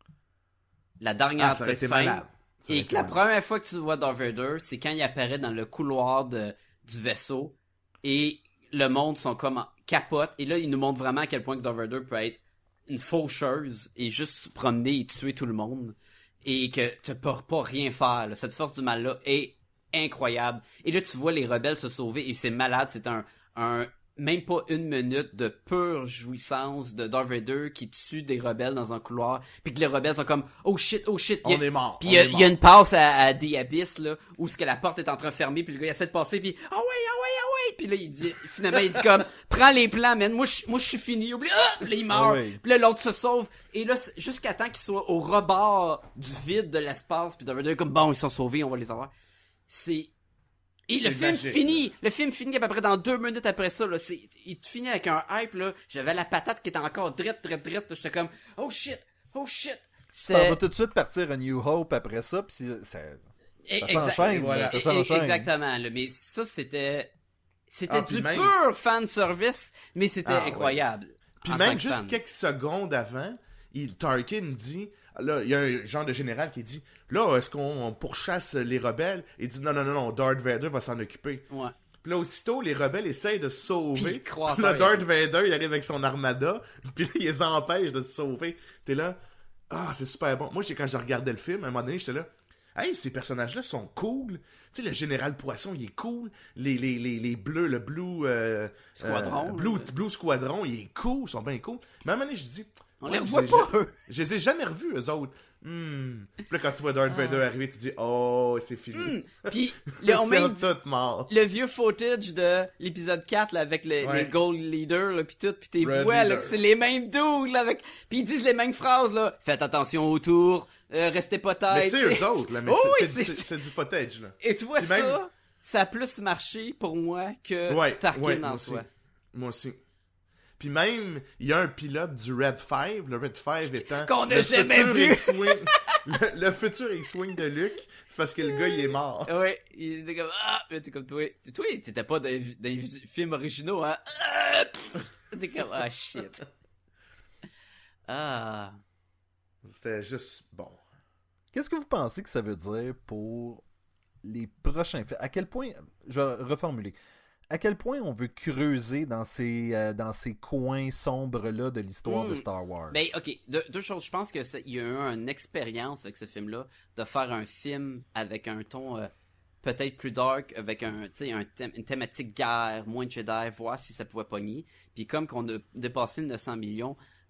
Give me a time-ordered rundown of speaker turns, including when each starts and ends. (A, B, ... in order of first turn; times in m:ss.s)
0:01.0-0:49.1 A
0:01.4-0:03.2 B
0:31.4-0:32.6 B
0:42.1-0:42.6 C
0:49.7-0:50.1 A
0:50.9-1:00.6 A
0:51.0-0:51.8 B
1:00.2-1:03.2 C
1:03.7-1:07.1 A
1:03.8-1:05.5 C
1:04.1-1:04.8 B
1:07.7-1:12.2 A
1:07.9-1:08.5 B
1:10.2-1:10.8 B
1:11.4-1:21.4 B
1:21.5-1:21.7 A
1:22.0-1:29.2 B
1:23.9-1:25.0 A
1:29.7-1:51.3 B
1:39.0-1:39.9 A
1:43.0-1:43.9 A
1:47.1-1:47.4 A
1:48.9-1:50.7 A
1:51.3-2:03.5 A
1:54.0-1:54.3 B
1:55.8-1:56.6 B
2:01.7-2:05.2 B
2:04.4-2:08.8 A
2:07.7-2:09.8 B
2:10.6-2:19.3 B
2:13.7-2:16.0 A
2:19.2-2:26.4 A
2:28.1-2:28.7 A
2:29.6-2:30.8 B
2:31.5-2:33.6 C
2:34.2-2:37.0 C
2:37.5-2:43.1 C
2:42.0-2:49.1 A
2:49.6-2:57.0 A